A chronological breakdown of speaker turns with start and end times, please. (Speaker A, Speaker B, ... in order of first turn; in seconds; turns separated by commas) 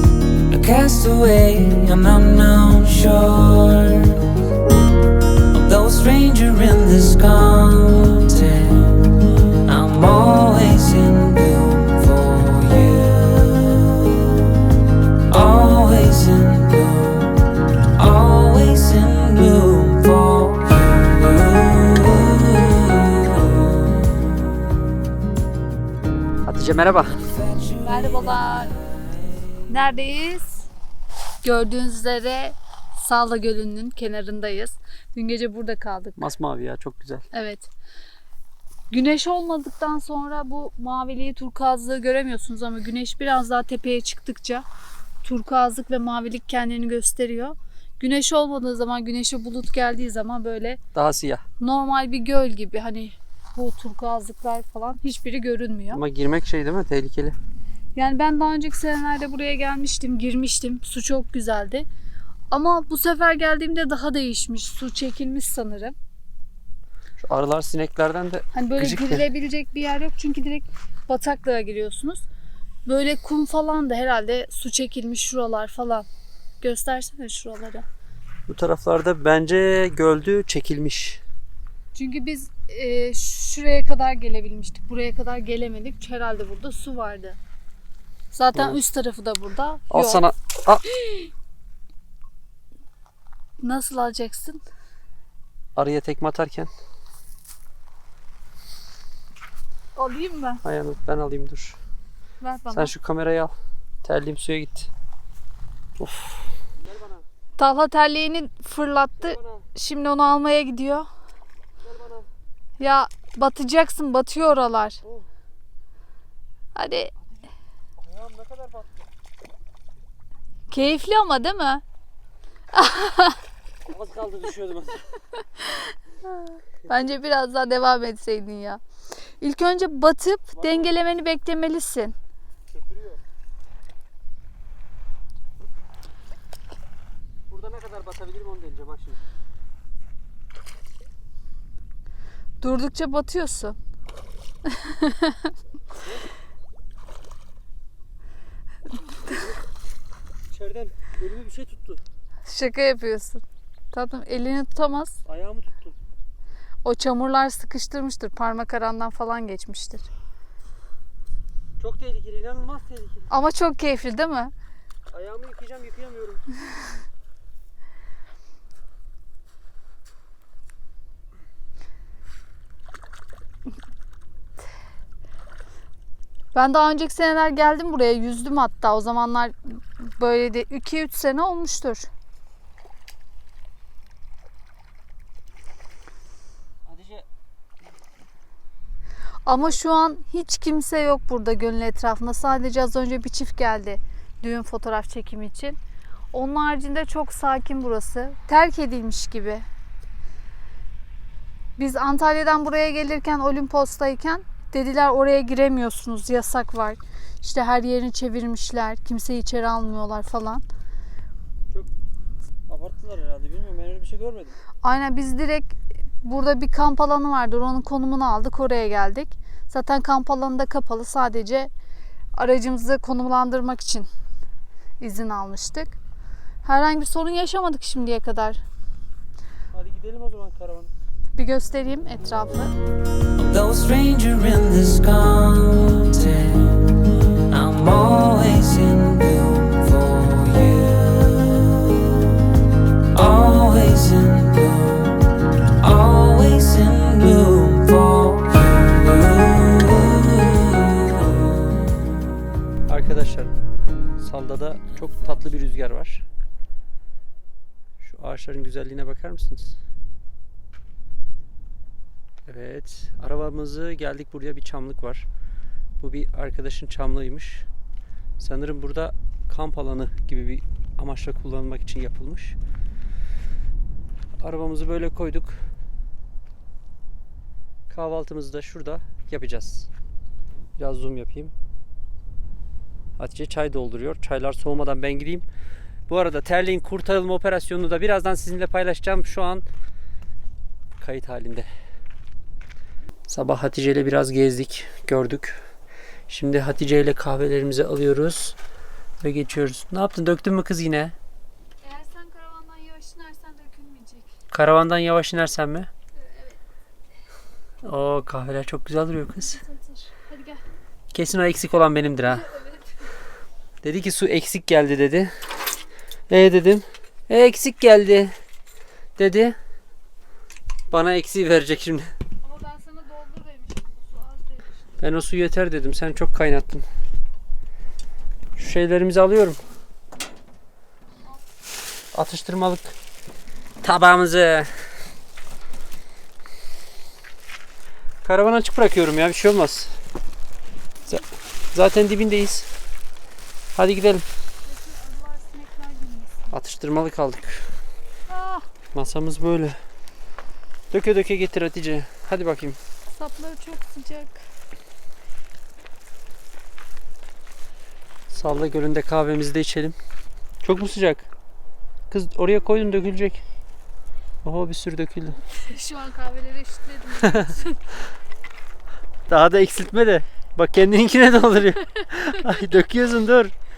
Speaker A: 0.5-4.2, Speaker A: 5.5-9.1, Speaker A: 9.7-14.1, Speaker A: 15.3-17.3, Speaker A: 18.0-23.9, Speaker B: 26.4-27.2, Speaker A: 27.2-29.4, Speaker C: 27.7-28.7, Speaker C: 29.7-30.7, Speaker C: 31.4-36.3, Speaker B: 36.2-37.2, Speaker C: 37.3-37.7, Speaker C: 38.9-44.6, Speaker C: 45.2-50.8, Speaker B: 50.9-51.4, Speaker C: 51.6-56.0, Speaker B: 55.9-57.4, Speaker C: 57.9-61.9, Speaker C: 62.5-65.9, Speaker B: 67.2-69.2, Speaker C: 68.5-72.2, Speaker C: 72.8-76.1, Speaker C: 76.6-77.8, Speaker B: 78.5-81.2, Speaker C: 81.9-87.4, Speaker C: 88.3-90.2, Speaker B: 88.5-88.8, Speaker B: 89.9-90.8, Speaker C: 90.9-91.3, Speaker C: 93.6-94.6, Speaker B: 95.8-96.7, Speaker C: 100.0-100.6, Speaker B: 100.6-101.8, Speaker C: 102.4-102.9, Speaker B: 102.7-104.9, Speaker B: 106.0-107.2, Speaker C: 107.6-111.1, Speaker B: 109.2-109.7, Speaker B: 111.8-112.3, Speaker C: 112.8-115.0, Speaker C: 116.7-117.1, Speaker B: 118.0-119.0, Speaker C: 120.7-121.8, Speaker C: 122.7-123.4, Speaker B: 123.9-125.1, Speaker C: 125.6-132.1, Speaker B: 126.8-127.1, Speaker B: 130.5-130.9, Speaker B: 132.7-133.2, Speaker B: 137.5-139.2, Speaker C: 142.6-143.8, Speaker C: 144.7-145.5, Speaker B: 146.0-146.3, Speaker B: 150.5-152.0, Speaker C: 152.4-155.2, Speaker B: 155.2-155.9, Speaker C: 156.8-160.1, Speaker B: 161.8-163.3, Speaker C: 163.3-164.5, Speaker B: 165.1-166.4, Speaker C: 176.5-182.1, Speaker B: 186.8-187.2, Speaker C: 189.4-195.8, Speaker C: 196.3-199.6, Speaker C: 201.8-210.6, Speaker B: 212.7-214.6, Speaker C: 214.8-221.7, Speaker C: 222.3-224.1, Speaker C: 225.0-226.0, Speaker C: 226.6-228.6, Speaker B: 229.7-230.9, Speaker C: 231.3-232.7, Speaker A: 233.3-236.9, Speaker A: 237.5-241.9, Speaker A: 243.1-245.2, Speaker A: 245.8-251.7, Speaker B: 252.9-253.5, Speaker B: 254.2-256.2, Speaker B: 258.0-259.8, Speaker B: 262.4-265.3, Speaker B: 266.0-267.7, Speaker B: 268.4-272.6, Speaker B: 274.4-275.6, Speaker B: 277.9-279.9, Speaker B: 280.8-281.5, Speaker B: 283.2-285.4, Speaker B: 286.1-289.6, Speaker B: 291.0-291.7, Speaker B: 293.3-295.6, Speaker B: 296.3-298.6, Speaker B: 299.2-301.1, Speaker C: 301.8-304.3, Speaker B: 304.5-305.9, Speaker C: 306.1-306.6, Speaker B: 307.8-309.6, Speaker C: 309.4-310.6, Speaker B: 311.1-312.4, Speaker C: 312.3-313.1, Speaker B: 313.8-315.3, Speaker B: 316.3-318.3, Speaker B: 319.2-319.6, Speaker B: 320.9-322.1, Speaker C: 322.4-324.9, Speaker B: 325.0-326.9, Speaker B: 328.6-329.6, Speaker B: 332.1-332.9, Speaker B: 333.8-334.7, Speaker B: 338.2-339.9, Speaker B: 341.1-342.7, Speaker B: 343.7-344.2, Speaker C: 344.6-346.6, Speaker B: 346.5-347.7, Speaker C: 348.3-348.6, Speaker B: 348.9-349.8, Speaker B: 350.9-352.8, Speaker C: 353.1-354.4, Speaker B: 358.3-360.0, Speaker B: 360.6-361.3, Speaker B: 362.1-363.4, Speaker B: 364.4-365.4, Speaker C: 365.4-367.8, Speaker B: 367.2-367.5, Speaker B: 369.3-373.5, Speaker C: 371.9-372.6